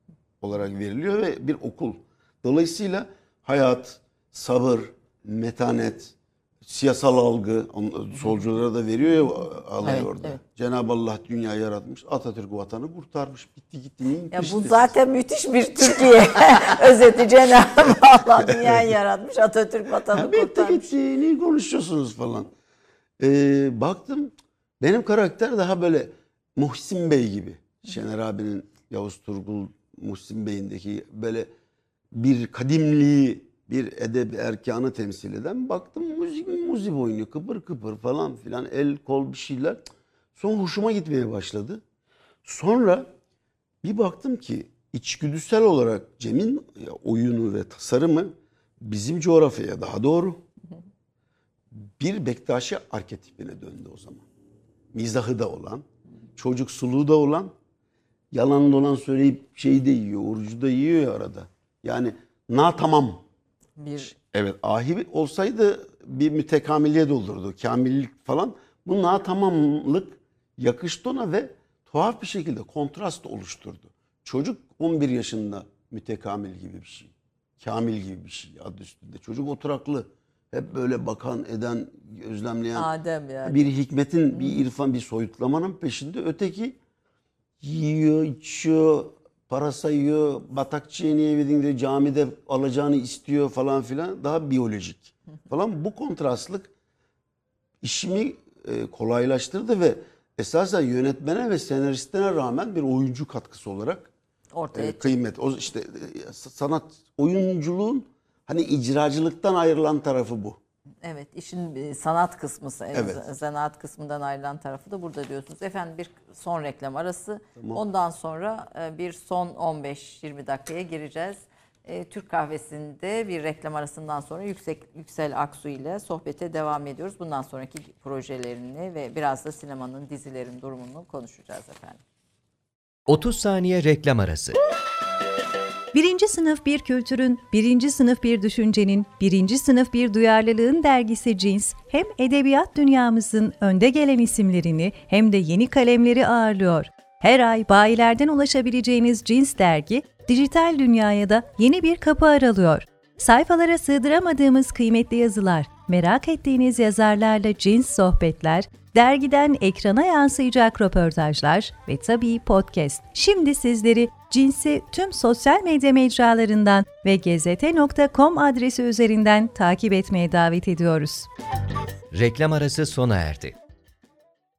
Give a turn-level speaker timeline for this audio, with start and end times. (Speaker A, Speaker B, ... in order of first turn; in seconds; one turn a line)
Speaker A: 0.4-14.9
Speaker B: 9.8-10.3
Speaker B: 14.3-20.9
Speaker A: 18.4-18.8
Speaker A: 20.1-22.5
Speaker A: 23.2-31.5
Speaker A: 32.1-39.8
Speaker A: 40.4-41.8
Speaker A: 42.4-43.1
Speaker A: 43.8-50.4
Speaker A: 51.7-54.2
Speaker A: 54.9-55.9
Speaker A: 56.4-57.5
Speaker A: 58.3-63.2
Speaker B: 63.8-64.1
Speaker A: 64.0-82.9
Speaker B: 82.8-83.7
Speaker A: 83.4-86.8
Speaker A: 87.6-96.7
Speaker A: 97.8-104.1
Speaker B: 104.5-105.2
Speaker A: 104.7-110.6
Speaker B: 111.0-132.0
Speaker A: 112.9-113.2
Speaker C: 133.1-134.6
Speaker D: 135.9-171.3
Speaker C: 172.1-173.5